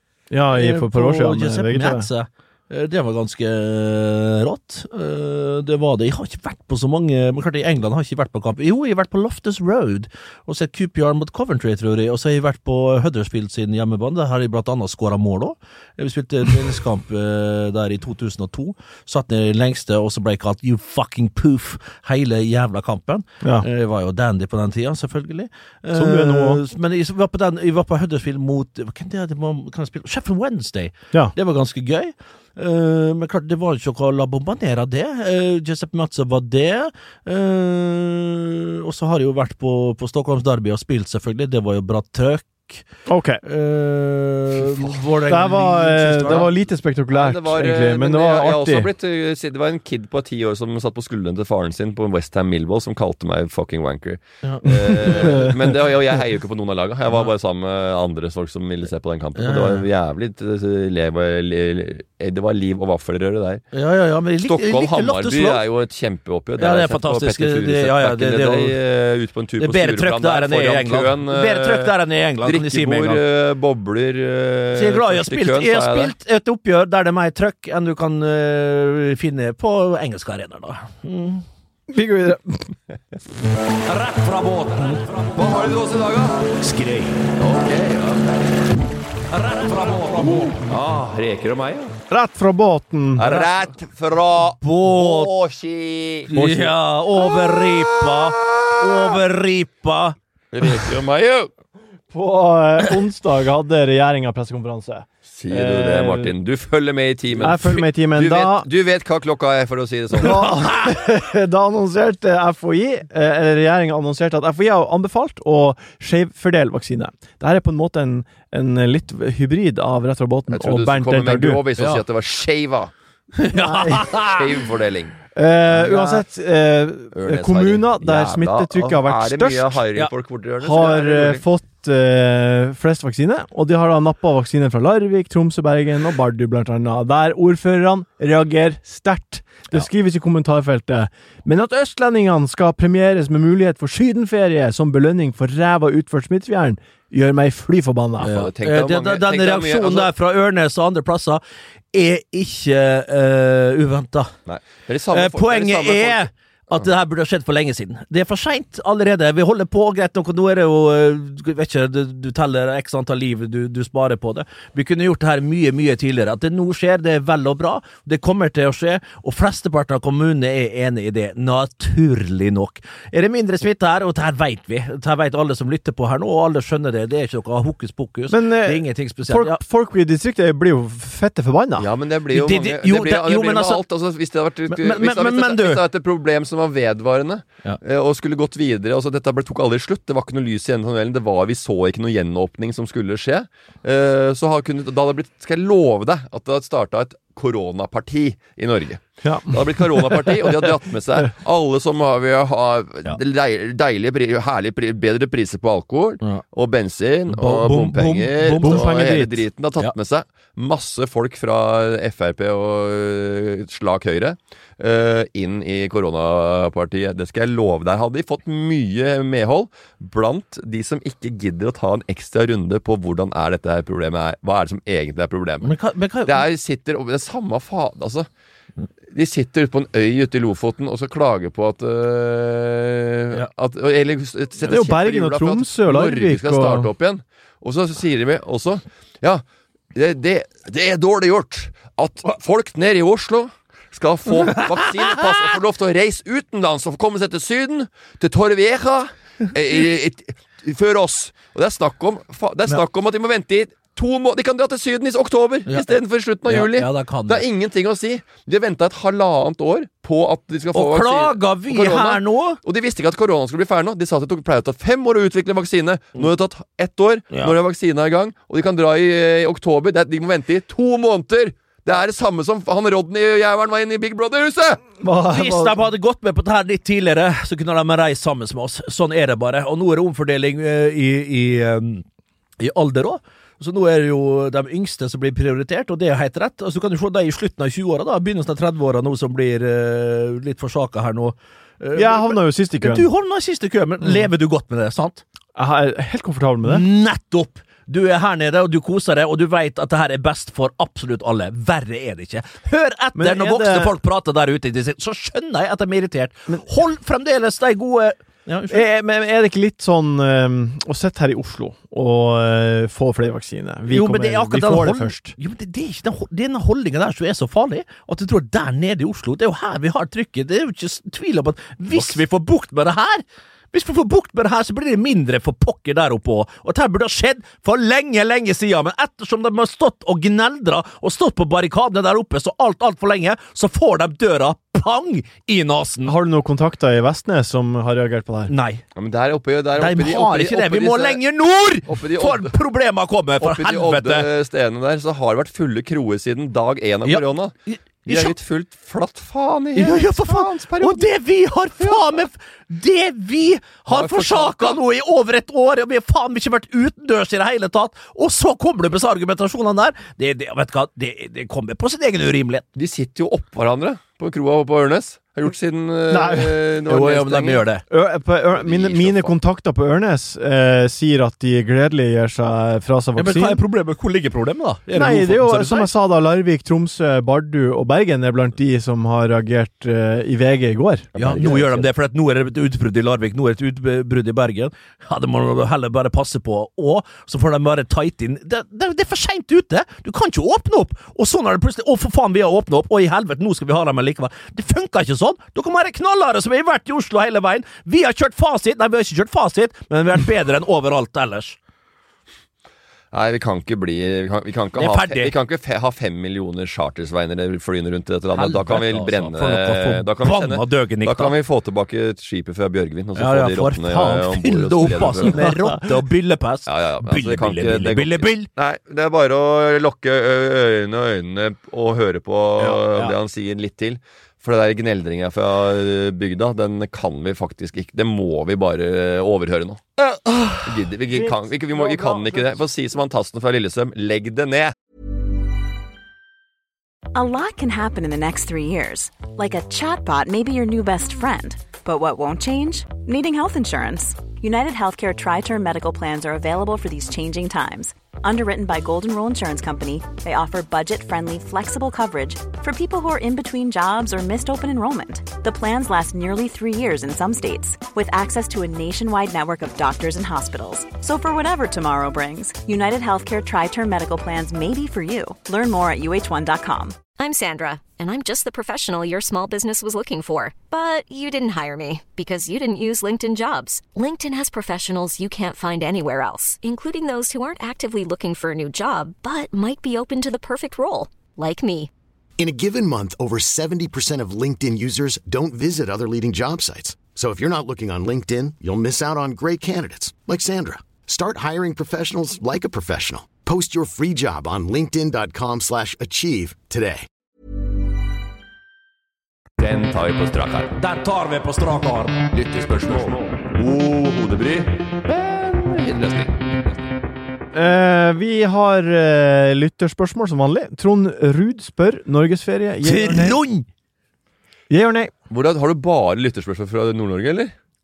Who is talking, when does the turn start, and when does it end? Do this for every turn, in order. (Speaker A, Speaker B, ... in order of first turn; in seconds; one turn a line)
Speaker A: 0.3-2.1
Speaker B: 0.5-42.8
Speaker A: 25.9-26.6
Speaker A: 43.1-43.4
Speaker B: 43.4-46.5
Speaker A: 45.2-48.9
Speaker C: 46.2-46.5
Speaker C: 47.1-63.6
Speaker B: 54.4-55.4
Speaker A: 54.7-55.6
Speaker B: 59.4-59.8
Speaker B: 63.7-65.6
Speaker C: 64.4-76.1
Speaker B: 66.6-68.8
Speaker B: 69.6-73.2
Speaker B: 74.7-81.4
Speaker A: 81.9-82.7
Speaker B: 83.8-85.7
Speaker C: 85.3-86.5
Speaker B: 86.6-87.3
Speaker C: 87.3-88.6
Speaker B: 89.3-90.6
Speaker C: 90.4-92.0
Speaker A: 92.1-93.3
Speaker C: 93.2-96.3
Speaker B: 94.6-95.3
Speaker B: 96.3-100.2
Speaker A: 96.3-96.8
Speaker C: 100.5-101.5
Speaker A: 102.1-106.3
Speaker C: 105.3-110.5
Speaker A: 107.4-108.7
Speaker A: 110.2-121.6
Speaker C: 120.5-122.9
Speaker B: 121.8-122.0
Speaker B: 123.3-124.5
Speaker A: 123.7-124.0
Speaker C: 124.1-125.1
Speaker A: 125.3-129.8
Speaker C: 125.7-126.2
Speaker C: 127.1-131.4
Speaker A: 130.6-148.3
Speaker C: 148.2-150.1
Speaker B: 148.2-151.4
Speaker B: 151.9-154.3
Speaker C: 154.4-156.8
Speaker B: 155.1-179.6
Speaker A: 178.3-181.9
Speaker C: 181.8-225.7
Speaker B: 182.3-183.8
Speaker B: 184.7-185.8
Speaker A: 199.2-200.7
Speaker B: 207.3-208.9
Speaker A: 208.6-209.4
Speaker B: 225.6-226.4
Speaker C: 226.2-228.3
Speaker C: 229.1-274.8
Speaker A: 234.6-236.9
Speaker B: 255.7-257.5
Speaker B: 260.7-262.6
Speaker B: 267.3-267.6
Speaker A: 275.0-275.8
Speaker B: 275.3-282.0
Speaker B: 282.6-295.2
Speaker A: 291.9-293.1
Speaker A: 295.6-296.8
Speaker B: 296.6-308.8
Speaker A: 303.1-303.9
Speaker A: 308.7-315.3
Speaker B: 313.9-336.1
Speaker A: 336.1-338.5
Speaker B: 338.5-338.8
Speaker C: 338.9-341.2
Speaker B: 339.8-344.3
Speaker C: 341.9-342.6
Speaker C: 343.4-347.5
Speaker B: 347.1-348.4
Speaker C: 348.1-351.1
Speaker B: 349.7-362.6
Speaker C: 351.8-352.2
Speaker C: 353.9-354.8
Speaker C: 362.7-367.7
Speaker A: 366.1-366.5
Speaker B: 366.9-367.8
Speaker A: 367.9-373.6
Speaker C: 368.5-369.4
Speaker B: 373.1-375.9
Speaker A: 374.9-381.1
Speaker C: 381.1-381.9
Speaker B: 381.1-401.6
Speaker C: 403.1-415.5
Speaker B: 404.8-405.3
Speaker B: 408.3-411.3
Speaker B: 413.1-418.5
Speaker C: 416.6-429.8
Speaker B: 422.6-423.1
Speaker B: 430.1-430.6
Speaker C: 430.6-434.7
Speaker A: 431.1-432.5
Speaker D: 437.1-467.0
Speaker E: 467.2-481.9
Speaker F: 482.4-497.0
Speaker C: 499.6-500.7
Speaker B: 500.8-502.3
Speaker C: 502.3-506.8
Speaker A: 507.5-513.4
Speaker B: 512.8-513.6
Speaker A: 514.7-515.1
Speaker C: 515.3-517.5